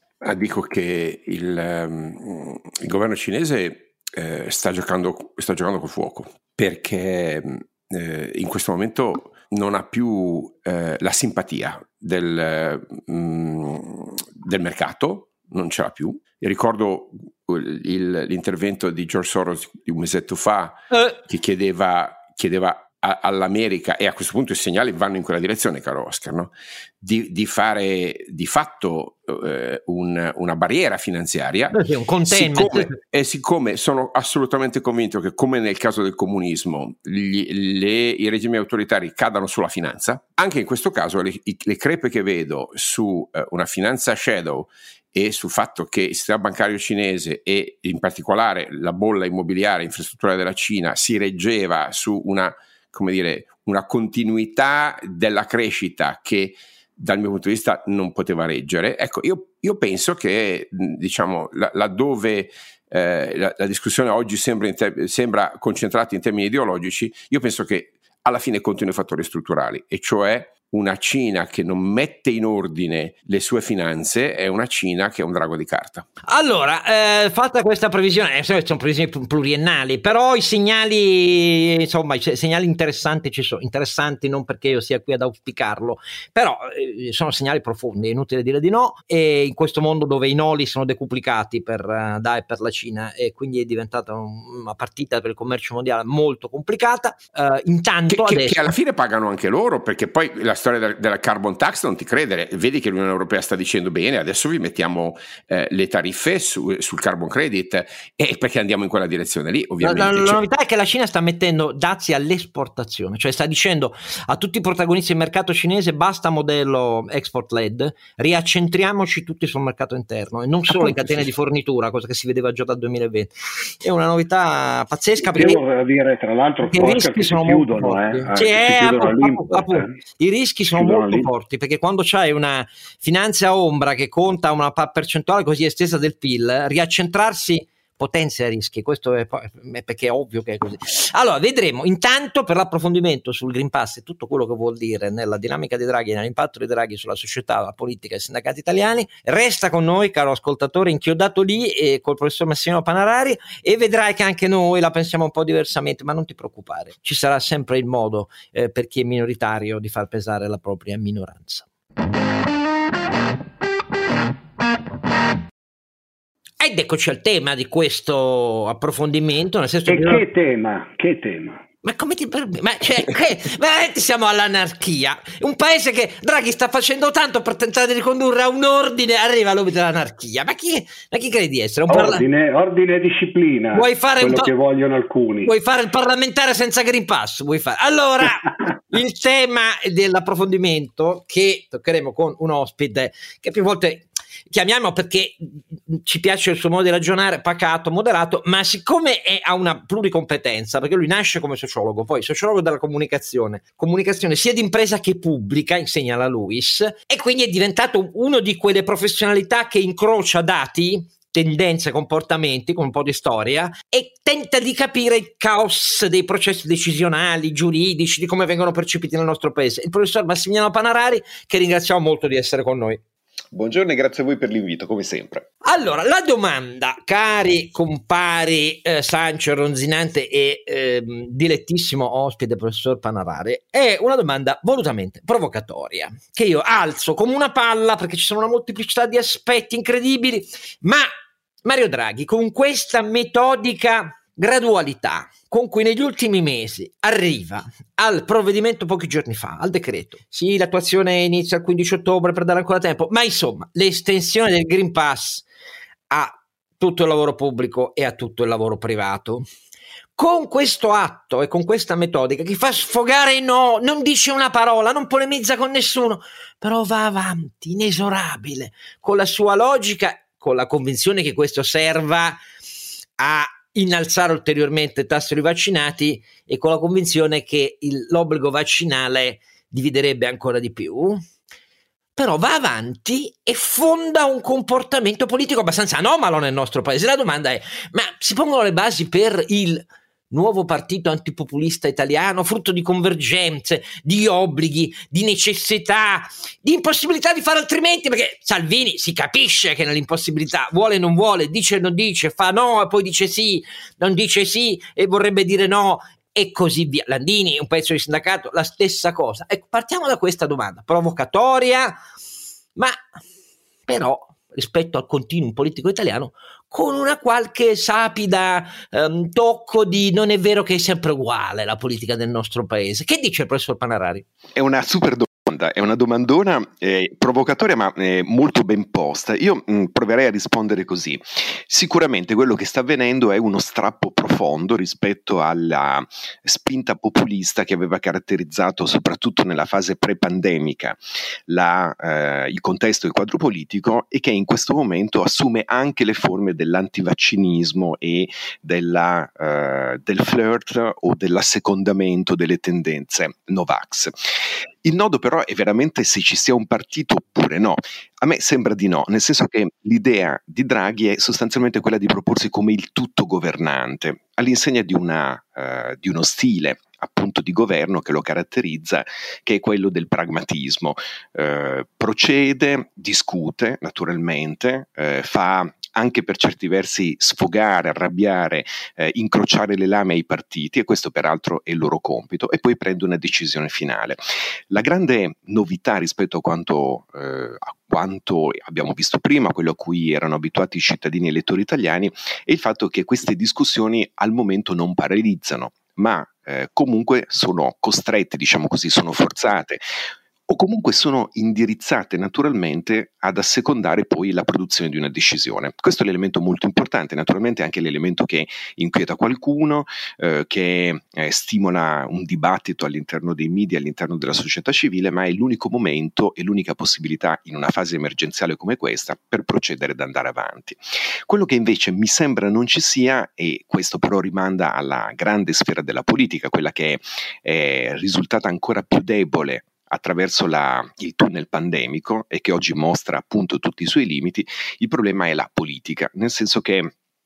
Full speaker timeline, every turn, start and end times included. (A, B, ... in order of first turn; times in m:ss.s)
0:00.2-0:31.8 A
0:31.7-0:33.0 B
0:32.3-1:16.1 A
1:16.3-1:38.7 B
1:38.1-1:50.4 A
1:49.8-2:03.3 B
2:03.8-2:05.6 B
2:05.2-2:10.0 C
2:06.7-2:41.7 B
2:10.7-2:11.3 C
2:46.6-2:50.2 B
2:49.9-2:51.6 C
2:51.8-3:02.2 B
3:01.9-3:05.5 C
3:03.7-3:04.5 B
3:05.4-3:43.0 B
3:43.5-3:45.5 D
3:45.6-4:01.1 B
4:01.6-4:15.4 B
4:16.1-4:19.5 B
4:20.2-4:32.4 B
4:33.2-4:41.2 B
4:42.2-5:12.0 B
5:13.9-5:24.2 B
5:24.6-5:54.3 D
5:54.8-6:39.8 D
6:40.5-7:16.9 D